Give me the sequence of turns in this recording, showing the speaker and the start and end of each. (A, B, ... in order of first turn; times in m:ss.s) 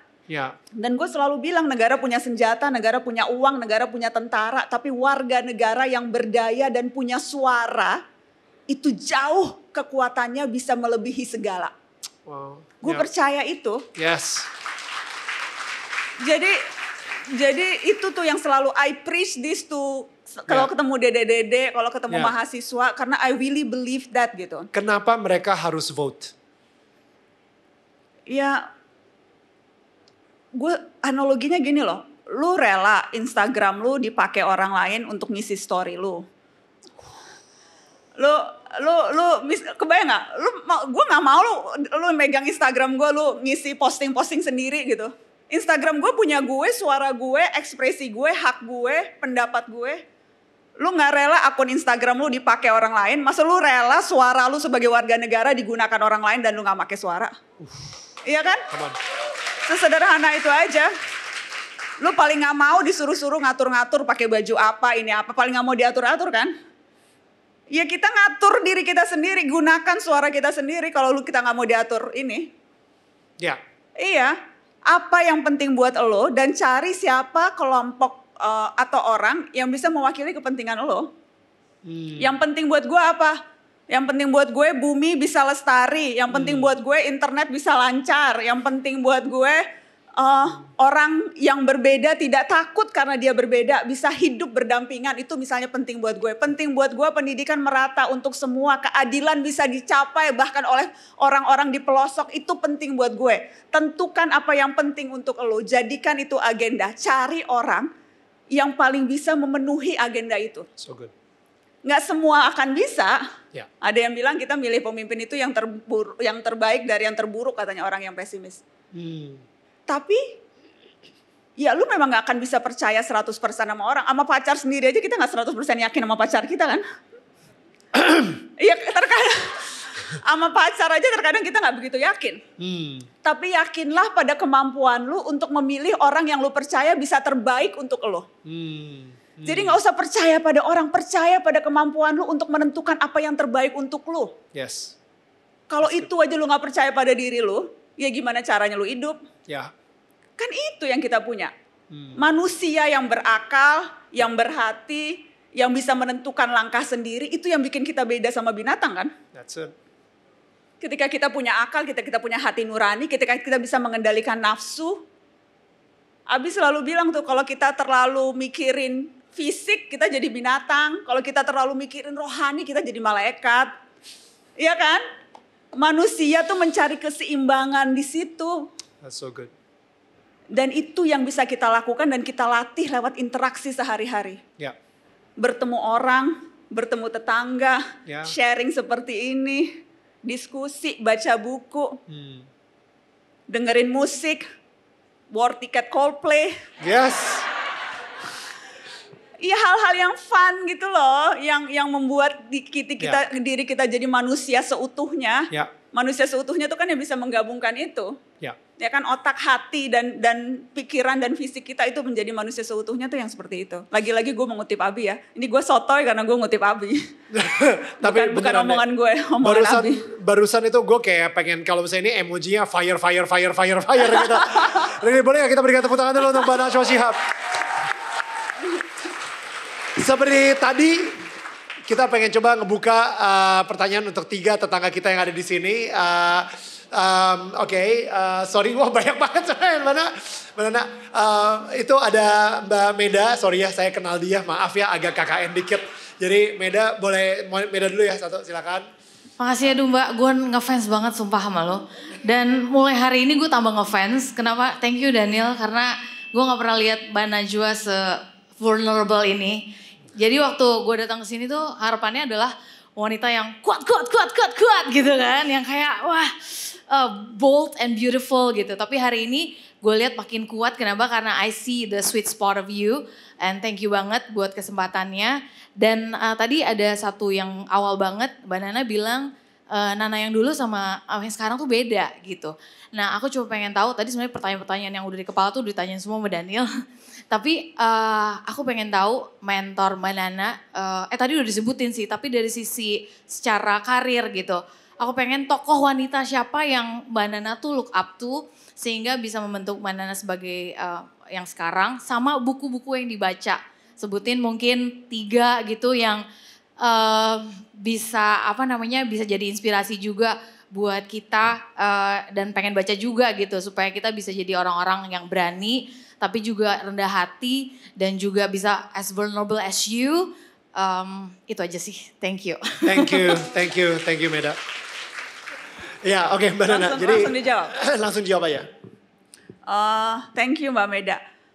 0:00.3-0:00.5 A
0:00.8-0:08.0 B
0:08.7-0:11.7 B
0:12.2-0:13.1 A
0:12.8-0:13.9 B
0:13.9-0:14.5 A
0:16.2-0:16.6 B
0:17.3-0:24.7 B
0:24.7-0:26.3 A
0:28.3-0:28.6 B
0:30.5-0:36.2 B
0:38.2-0:50.0 B
0:50.8-0:57.3 B
0:57.6-0:57.9 A
0:58.2-0:58.7 B
0:58.7-0:59.0 A
0:59.6-1:00.9 B
1:02.0-1:06.5 B
1:07.7-1:12.5 B
1:14.0-1:14.3 B
1:14.9-1:21.1 B
1:21.8-1:22.3 A
1:22.2-1:23.4 B
1:23.9-1:29.6 B
1:26.3-1:26.7 A
1:30.2-1:47.9 B
1:48.5-1:50.7 B
1:50.8-1:51.1 A
1:51.8-1:53.2 B
1:53.8-1:58.6 B
1:58.9-1:59.4 A
1:59.9-2:00.2 B
2:01.6-2:06.8 B
2:07.9-2:08.4 A
2:08.6-2:12.4 B
2:12.6-2:13.1 A
2:13.2-2:18.3 B
2:18.4-2:19.8 A
2:19.4-2:24.3 B
2:24.5-2:24.9 A
2:25.7-2:29.2 B
2:25.8-2:26.1 A
2:30.4-2:31.5 B
2:31.9-2:32.2 A
2:32.2-2:39.1 B
2:39.3-2:39.7 A
2:40.8-2:45.0 B
2:46.3-2:53.7 B
2:54.6-2:55.0 B
2:55.7-2:58.6 B
2:59.0-2:59.5 A
3:00.5-3:04.4 B
3:05.4-3:12.0 B
3:08.0-3:08.3 A
3:12.1-3:12.5 A
3:13.5-3:14.4 B
3:15.3-3:16.6 B
3:16.8-3:17.5 A
3:19.4-3:28.2 B
3:28.8-3:37.0 B
3:37.3-3:38.8 A
3:38.0-3:40.0 B
3:39.4-3:47.3 A
3:44.2-3:44.8 B
3:50.0-3:51.2 A
3:51.8-4:08.8 A
4:09.4-4:19.6 C
4:20.2-4:46.8 C
4:47.3-5:06.2 C
5:06.8-5:23.5 C
5:22.8-5:24.6 A
5:26.0-5:28.7 A
5:26.6-5:27.7 B
5:29.7-5:31.2 B